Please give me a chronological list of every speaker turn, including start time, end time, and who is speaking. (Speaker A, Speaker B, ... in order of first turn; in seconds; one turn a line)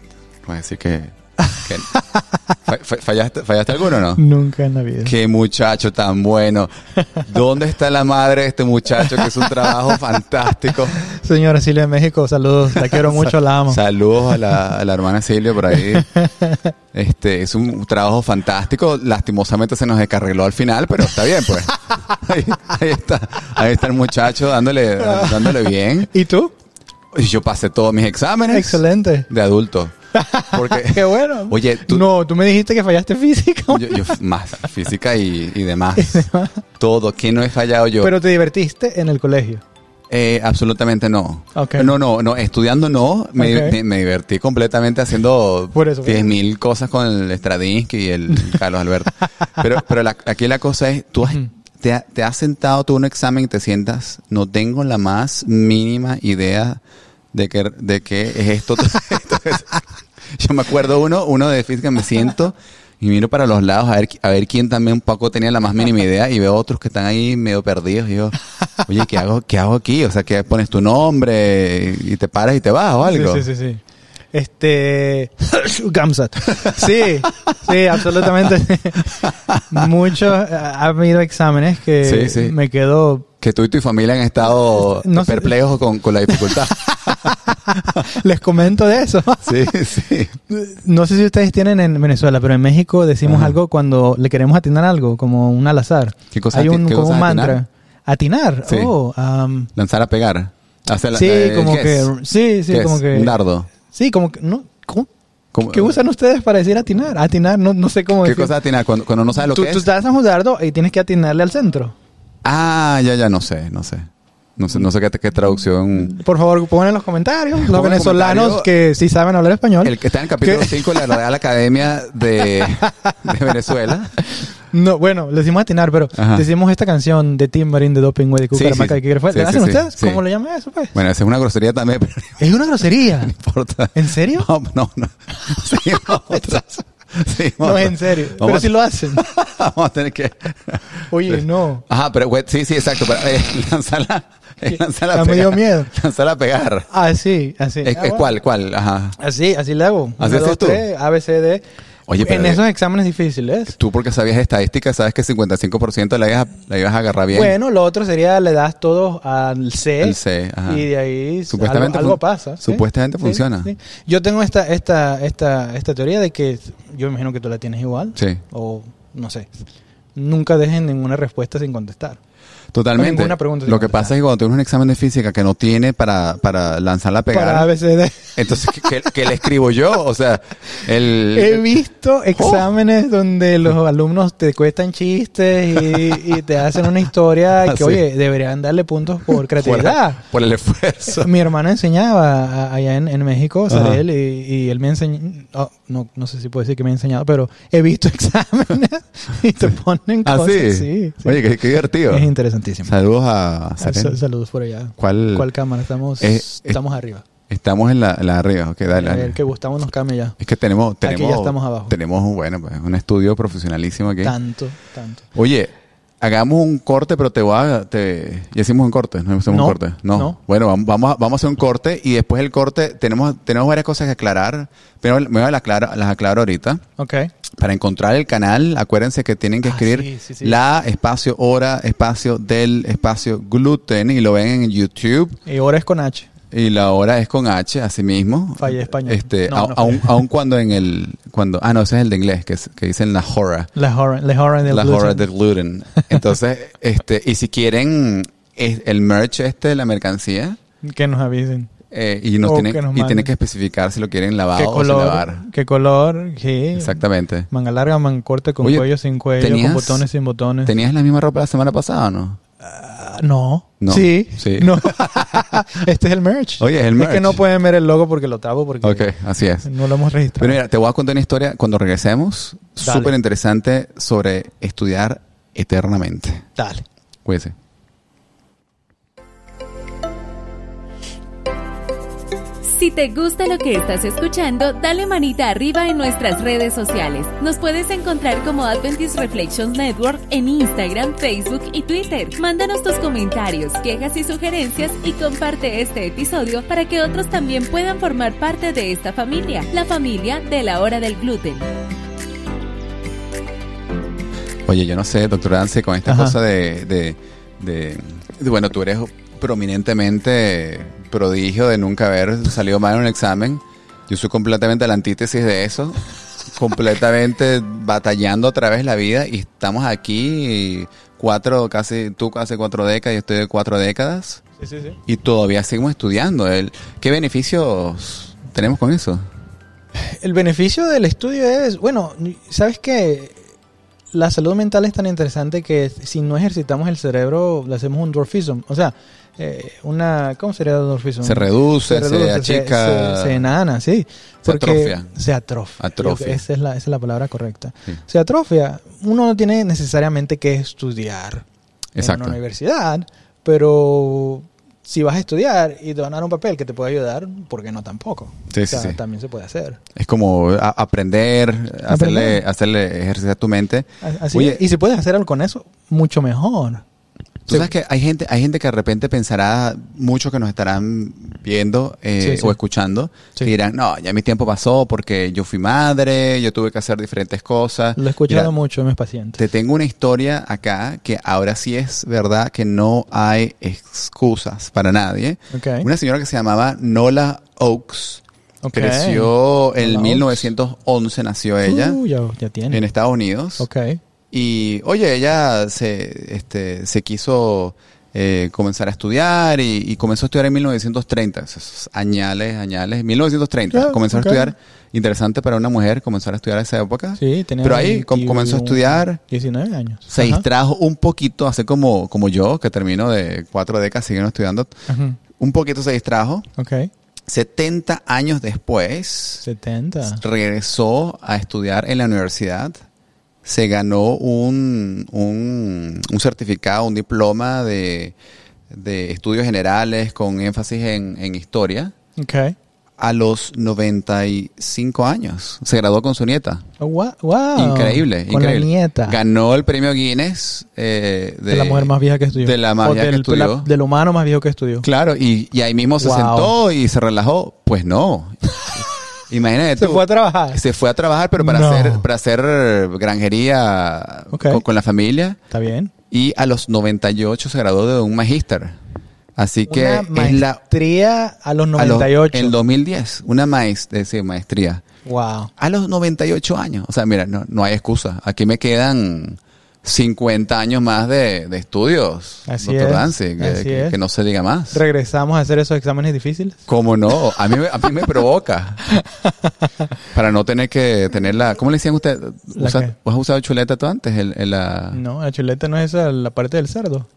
Speaker A: 0.4-1.9
Speaker A: 2.7-4.2
Speaker B: 4.2-5.1
Speaker A: 5.0-11.0
Speaker B: 9.0-9.7
Speaker B: 11.0-14.4
Speaker A: 12.8-16.1
Speaker B: 15.8-16.6
Speaker A: 16.9-26.1
Speaker B: 25.0-26.5
Speaker A: 27.1-29.9
Speaker B: 28.4-29.3
Speaker B: 30.1-34.1
Speaker A: 30.5-32.1
Speaker A: 33.7-36.3
Speaker B: 36.0-36.6
Speaker A: 36.8-38.1
Speaker B: 38.0-39.6
Speaker A: 40.1-56.8
Speaker B: 41.5-42.0
Speaker B: 43.4-43.8
Speaker B: 45.7-46.2
Speaker A: 57.3-59.8
Speaker A: 60.3-73.5
Speaker B: 73.0-73.8
Speaker B: 74.3-83.3
Speaker A: 79.2-79.6
Speaker A: 82.0-82.5
Speaker A: 83.4-87.3
Speaker B: 84.8-85.5
Speaker B: 86.3-89.6
Speaker A: 89.4-90.3
Speaker B: 90.5-99.7
Speaker A: 93.2-93.6
Speaker A: 96.3-97.6
Speaker A: 98.7-98.9
Speaker A: 99.8-102.1
Speaker B: 101.1-103.3
Speaker A: 102.7-103.7
Speaker B: 103.9-105.1
Speaker A: 105.5-106.0
Speaker B: 105.7-108.5
Speaker A: 108.2-109.9
Speaker B: 109.4-112.0
Speaker A: 112.4-116.1
Speaker B: 115.9-121.2
Speaker A: 117.5-118.7
Speaker A: 119.8-124.2
Speaker B: 122.5-123.2
Speaker B: 124.4-131.0
Speaker A: 126.2-126.5
Speaker A: 128.5-130.2
Speaker A: 130.9-132.5
Speaker B: 132.4-133.3
Speaker A: 133.2-146.9
Speaker B: 133.9-134.5
Speaker B: 137.6-139.2
Speaker B: 141.1-141.8
Speaker B: 144.7-145.9
Speaker B: 146.9-148.3
Speaker A: 147.8-149.2
Speaker B: 149.2-151.7
Speaker A: 150.2-150.8
Speaker A: 152.1-152.6
Speaker B: 152.2-153.8
Speaker A: 153.7-157.5
Speaker B: 157.3-169.5
Speaker A: 160.0-160.8
Speaker A: 161.5-163.7
Speaker A: 168.2-168.4
Speaker B: 170.2-172.2
Speaker A: 172.7-177.7
Speaker B: 173.0-174.1
Speaker B: 177.3-178.4
Speaker A: 178.3-181.7
Speaker B: 181.3-190.2
Speaker A: 182.3-182.7
Speaker A: 187.6-188.0
Speaker A: 189.3-191.3
Speaker B: 191.1-201.4
Speaker A: 193.7-194.0
Speaker A: 200.2-202.3
Speaker B: 202.1-202.9
Speaker A: 202.8-204.2
Speaker B: 203.8-207.2
Speaker A: 205.0-205.5
Speaker A: 206.2-206.8
Speaker A: 207.5-209.4
Speaker B: 208.9-210.4
Speaker A: 210.4-214.3
Speaker B: 211.0-212.0
Speaker B: 214.2-215.3
Speaker A: 215.3-226.8
Speaker B: 219.5-220.4
Speaker B: 227.0-227.3
Speaker A: 227.6-235.4
Speaker B: 229.6-230.6
Speaker B: 235.5-236.3
Speaker A: 236.5-243.7
Speaker B: 238.6-240.2
Speaker B: 243.8-245.3
Speaker A: 244.7-250.6
Speaker B: 250.8-251.7
Speaker A: 251.9-255.4
Speaker B: 252.4-253.3
Speaker B: 254.5-260.7
Speaker A: 256.8-257.5
Speaker A: 258.6-260.0
Speaker A: 260.6-262.4
Speaker B: 262.6-269.1
Speaker A: 263.8-265.4
Speaker A: 266.6-267.4
Speaker A: 268.8-269.7
Speaker B: 269.6-270.6
Speaker A: 270.4-276.4
Speaker B: 272.8-273.1
Speaker B: 276.6-276.9
Speaker A: 277.2-277.5
Speaker C: 282.6-301.7
Speaker A: 304.7-316.0
Speaker B: 306.1-306.4
Speaker A: 316.5-324.4
Speaker B: 324.6-325.0
Speaker A: 325.1-329.2
Speaker B: 330.1-333.4
Speaker B: 334.1-351.4
Speaker A: 341.2-343.4
Speaker A: 344.4-345.1
Speaker A: 345.8-346.4
Speaker A: 351.9-352.4
Speaker B: 352.0-359.8
Speaker A: 358.5-359.0
Speaker A: 359.9-364.6
Speaker B: 361.9-362.4
Speaker B: 364.0-366.8
Speaker A: 367.5-378.5
Speaker B: 372.2-372.6
Speaker B: 377.9-379.4
Speaker A: 379.4-388.2
Speaker B: 385.5-385.9
Speaker B: 388.6-390.5
Speaker A: 388.7-392.0
Speaker B: 391.6-392.8
Speaker A: 392.7-393.7
Speaker B: 393.6-394.0
Speaker A: 394.3-409.2
Speaker B: 403.7-404.5
Speaker B: 407.2-410.4
Speaker A: 410.1-414.7
Speaker B: 414.9-415.2
Speaker A: 415.4-416.5
Speaker B: 416.6-416.9
Speaker A: 417.3-419.4
Speaker B: 419.4-420.2
Speaker A: 420.0-422.8
Speaker A: 423.4-428.1
Speaker A: 428.7-431.9
Speaker B: 432.1-432.5
Speaker A: 433.0-436.6
Speaker B: 436.8-439.2
Speaker A: 437.6-443.7
Speaker B: 441.5-444.9
Speaker A: 444.8-448.4
Speaker B: 446.0-446.5
Speaker A: 449.3-455.4
Speaker B: 449.8-450.6
Speaker B: 451.4-452.1
Speaker B: 454.3-454.6
Speaker B: 455.5-455.9
Speaker A: 456.1-458.8
Speaker A: 459.4-460.6
Speaker B: 459.6-462.6
Speaker A: 461.8-464.8
Speaker B: 465.0-465.5
Speaker A: 465.6-474.8
Speaker B: 472.5-473.9
Speaker B: 474.7-476.7
Speaker A: 476.7-478.9
Speaker A: 480.1-485.0
Speaker B: 482.6-482.9
Speaker B: 484.9-487.1